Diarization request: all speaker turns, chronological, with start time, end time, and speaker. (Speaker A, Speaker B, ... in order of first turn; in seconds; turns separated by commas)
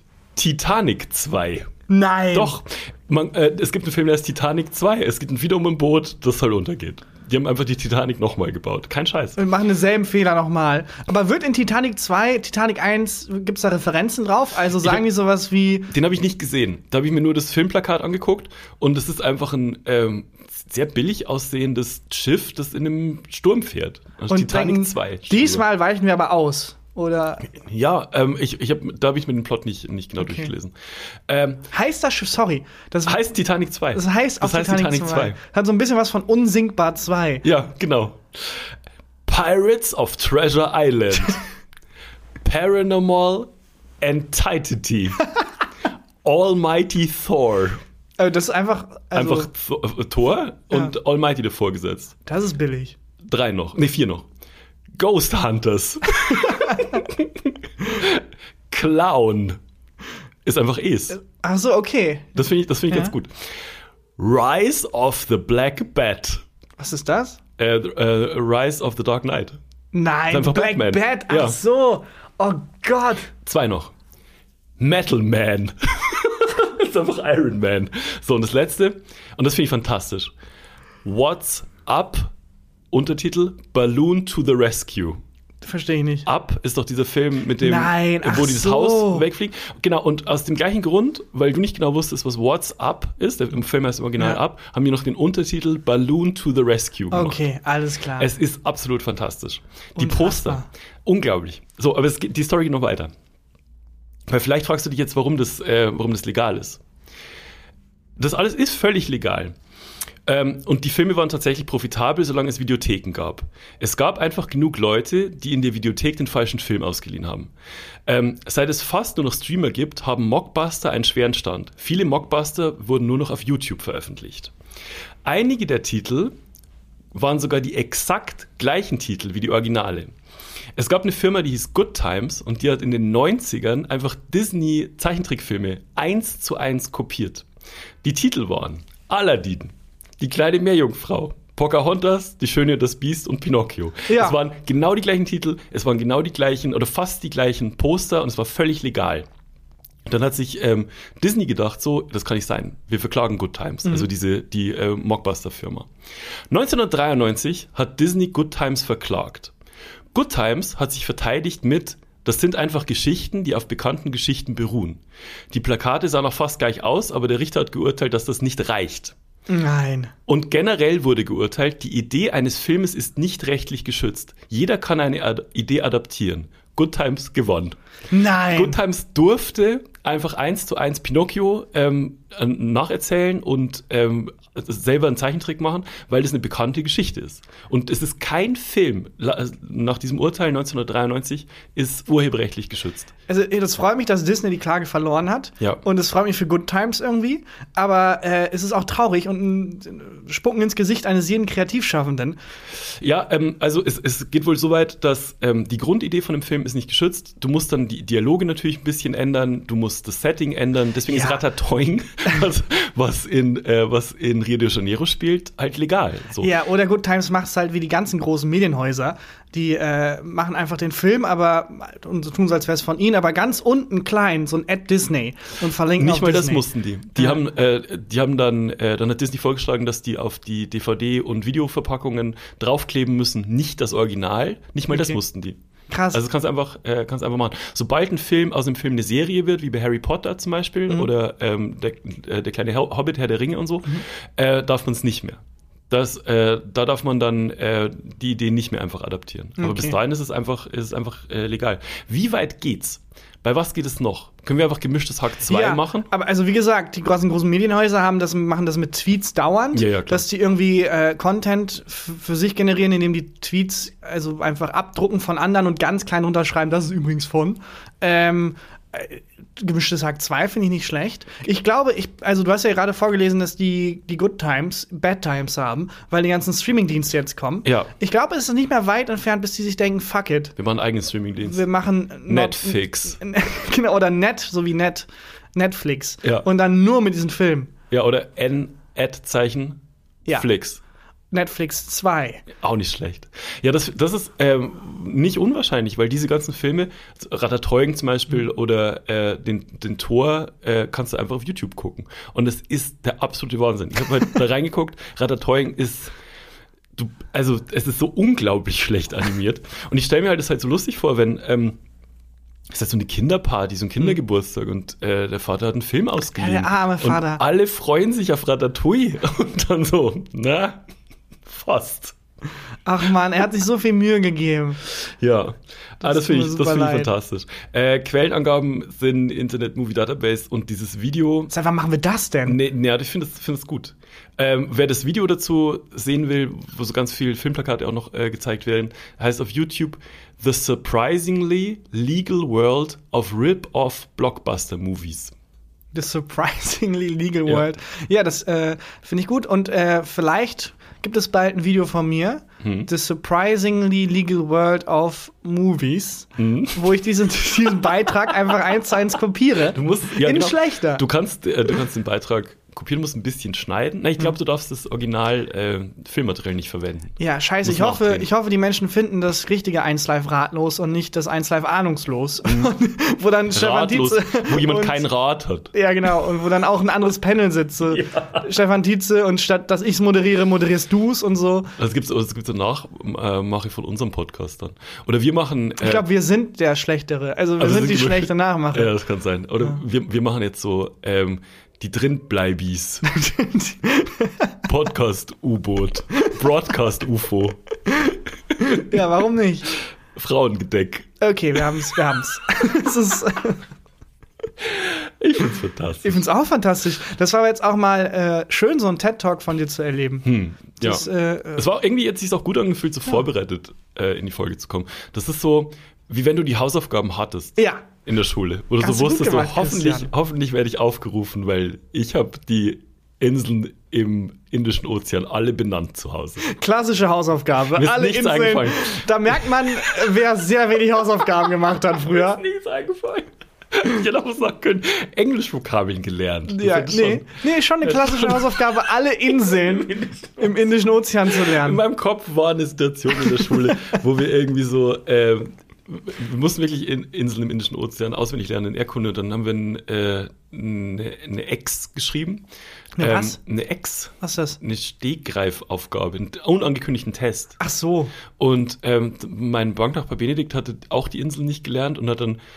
Speaker A: 0.4-1.7, Speaker B: 1.9-2.6, Speaker A: 2.3-9.4, Speaker B: 9.4-15.9, Speaker A: 15.9-25.6, Speaker B: 24.3-27.5, Speaker A: 27.5-30.8, Speaker B: 30.2-30.5, Speaker A: 31.3-31.7, Speaker B: 31.7-33.2, Speaker A: 33.1-35.4, Speaker B: 33.9-37.5, Speaker A: 37.4-38.7, Speaker A: 39.3-41.4, Speaker A: 42.4-45.2, Speaker A: 46.2-47.8, Speaker B: 48.2-49.5, Speaker A: 49.1-52.1, Speaker B: 52.3-53.0, Speaker A: 53.2-54.3, Speaker A: 55.0-59.6, Speaker B: 56.5-57.0, Speaker A: 60.5-61.2, Speaker B: 61.2-63.1, Speaker A: 62.4-63.6, Speaker A: 64.2-66.4, Speaker B: 66.8-67.4, Speaker A: 67.6-69.6, Speaker B: 69.9-73.3, Speaker A: 70.3-71.6, Speaker A: 73.4-73.9, Speaker A: 74.8-80.3, Speaker A: 81.0-82.3, Speaker A: 82.9-85.2, Speaker B: 85.6-86.3, Speaker A: 86.2-97.4, Speaker B: 87.6-89.3, Speaker B: 97.1-98.3, Speaker A: 98.2-103.1, Speaker B: 100.0-100.7, Speaker A: 104.3-106.8, Speaker A: 108.2-109.6, Speaker A: 110.2-117.5, Speaker A: 118.1-124.5, Speaker A: 125.2-126.4, Speaker A: 127.1-130.1, Speaker A: 130.8-137.5, Speaker A: 138.0-149.3, Speaker B: 144.1-144.4, Speaker A: 150.1-155.9, Speaker A: 156.5-159.5, Speaker A: 160.1-169.2, Speaker B: 169.5-170.1, Speaker A: 170.3-177.8, Speaker B: 178.1-178.8, Speaker A: 178.5-193.1, Speaker B: 193.3-202.4, Speaker A: 203.0-216.5, Speaker B: 211.1-211.4, Speaker B: 216.4-226.7, Speaker A: 226.0-235.6, Speaker B: 234.9-235.2, Speaker B: 235.9-236.2, Speaker A: 236.1-256.1, Speaker B: 249.6-250.0, Speaker B: 255.5-280.6, Speaker A: 259.7-260.2, Speaker A: 277.6-277.9, Speaker A: 280.6-281.7, Speaker B: 281.4-287.7, Speaker A: 282.3-283.2, Speaker A: 287.9-289.8, Speaker A: 290.3-290.8, Speaker B: 291.3-292.5, Speaker A: 292.6-306.1, Speaker A: 306.9-311.8, Speaker A: 312.7-320.8, Speaker B: 316.4-317.4, Speaker A: 321.5-322.2, Speaker B: 322.9-324.8, Speaker A: 324.9-331.5, Speaker B: 326.0-327.1, Speaker B: 331.5-332.6, Speaker A: 332.4-345.3, Speaker B: 345.9-361.0, Speaker A: 352.6-352.9, Speaker A: 356.4-357.0, Speaker A: 359.7-368.3, Speaker B: 367.2-375.1, Speaker A: 372.5-372.7, Speaker A: 373.5-375.7, Speaker B: 375.7-381.7, Speaker A: 377.9-378.5, Speaker A: 381.8-386.1, Speaker B: 385.8-388.9, Speaker A: 387.6-393.1, Speaker B: 393.1-394.6, Speaker A: 394.7-397.6, Speaker B: 398.6-399.7, Speaker A: 398.6-399.0, Speaker A: 400.1-401.8, Speaker B: 401.2-403.6, Speaker A: 404.6-406.2, Speaker B: 406.0-411.7, Speaker A: 410.2-426.4, Speaker B: 417.6-417.8, Speaker B: 418.8-420.1, Speaker B: 426.4-432.4, Speaker A: 427.7-430.1, Speaker A: 431.4-440.6, Speaker B: 436.5-441.8, Speaker A: 441.3-452.4, Speaker B: 453.0-453.4, Speaker A: 453.0-457.6, Speaker B: 454.2-454.6, Speaker B: 457.6-458.1, Speaker A: 458.4-462.4